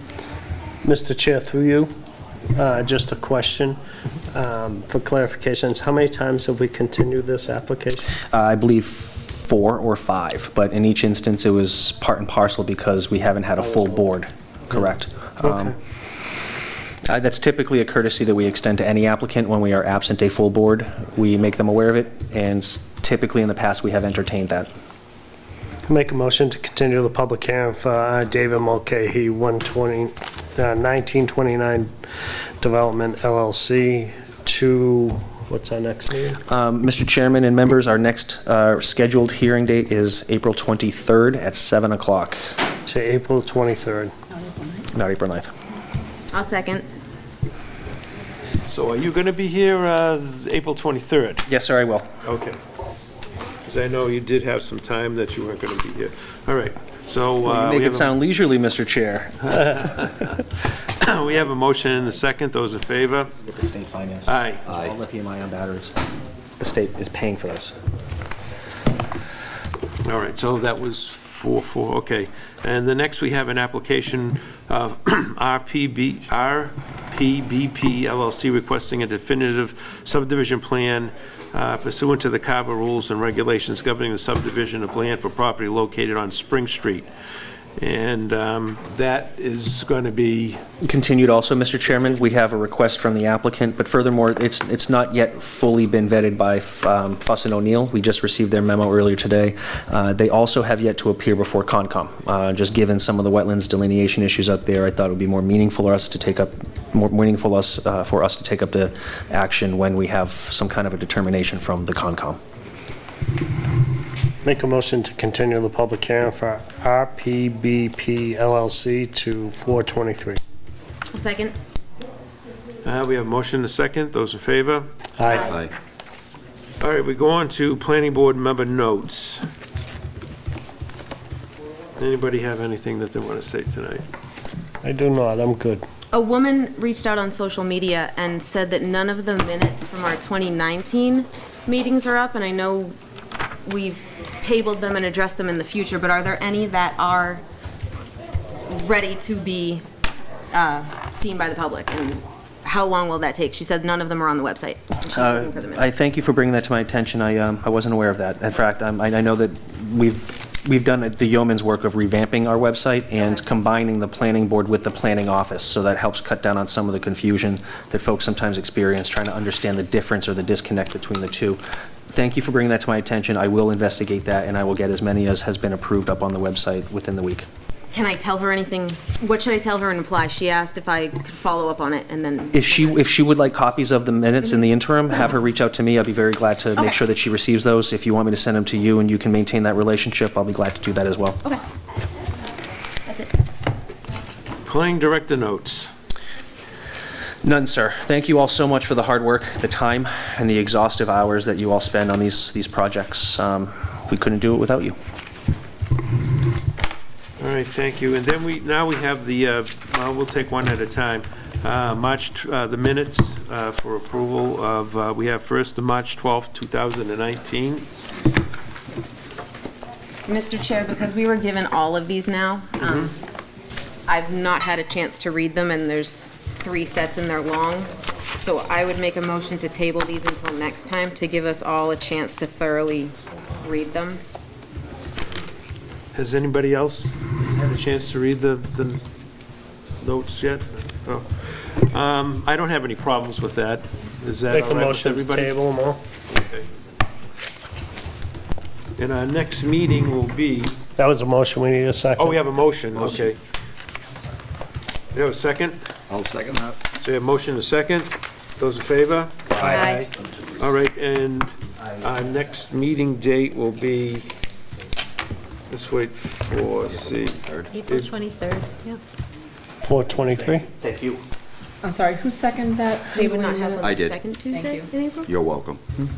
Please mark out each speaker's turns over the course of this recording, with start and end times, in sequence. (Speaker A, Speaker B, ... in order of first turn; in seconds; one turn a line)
Speaker A: 0.8-1.9
Speaker A: 2.5-3.8
Speaker A: 4.3-8.1
Speaker B: 8.3-15.7
Speaker A: 15.4-15.7
Speaker B: 17.0-24.7
Speaker A: 25.9-31.9
Speaker A: 32.6-36.4
Speaker B: 36.5-42.4
Speaker A: 42.9-44.1
Speaker B: 44.9-45.5
Speaker C: 46.3-46.9
Speaker D: 48.7-51.5
Speaker B: 51.5-52.1
Speaker D: 52.2-52.6
Speaker D: 53.6-58.1
Speaker B: 57.4-59.9
Speaker D: 59.9-60.2
Speaker D: 61.0-63.3
Speaker B: 63.4-65.9
Speaker D: 64.2-64.6
Speaker E: 64.7-64.9
Speaker B: 66.6-67.7
Speaker D: 70.0-87.1
Speaker D: 87.8-90.6
Speaker B: 90.8-112.4
Speaker A: 114.4-120.4
Speaker C: 121.1-121.5
Speaker D: 122.8-124.9
Speaker A: 125.2-125.6
Speaker C: 125.3-125.5
Speaker E: 125.4-125.7
Speaker D: 126.8-129.4
Speaker D: 132.0-134.0
Speaker A: 134.8-135.8
Speaker C: 136.1-142.9
Speaker C: 143.6-147.4
Speaker C: 148.7-149.8
Speaker C: 150.5-155.8
Speaker B: 155.1-177.4
Speaker C: 177.9-183.0
Speaker B: 182.5-191.4
Speaker C: 193.0-193.3
Speaker D: 194.7-195.9
Speaker B: 197.4-204.9
Speaker D: 207.4-217.9
Speaker C: 220.2-223.2
Speaker C: 224.1-234.2
Speaker D: 236.1-239.0
Speaker D: 240.0-245.5
Speaker A: 244.5-246.0
Speaker D: 246.3-246.7
Speaker D: 249.0-250.8
Speaker A: 251.0-252.4
Speaker D: 252.2-253.4
Speaker D: 255.1-255.8
Speaker E: 256.1-256.8
Speaker D: 257.0-264.3
Speaker A: 259.6-259.9
Speaker C: 259.7-260.1
Speaker D: 265.7-268.1
Speaker E: 266.9-267.7
Speaker A: 269.8-270.6
Speaker B: 270.4-271.2
Speaker F: 271.8-274.0
Speaker C: 273.1-275.3
Speaker E: 273.8-274.2
Speaker F: 274.5-274.9
Speaker E: 275.3-275.8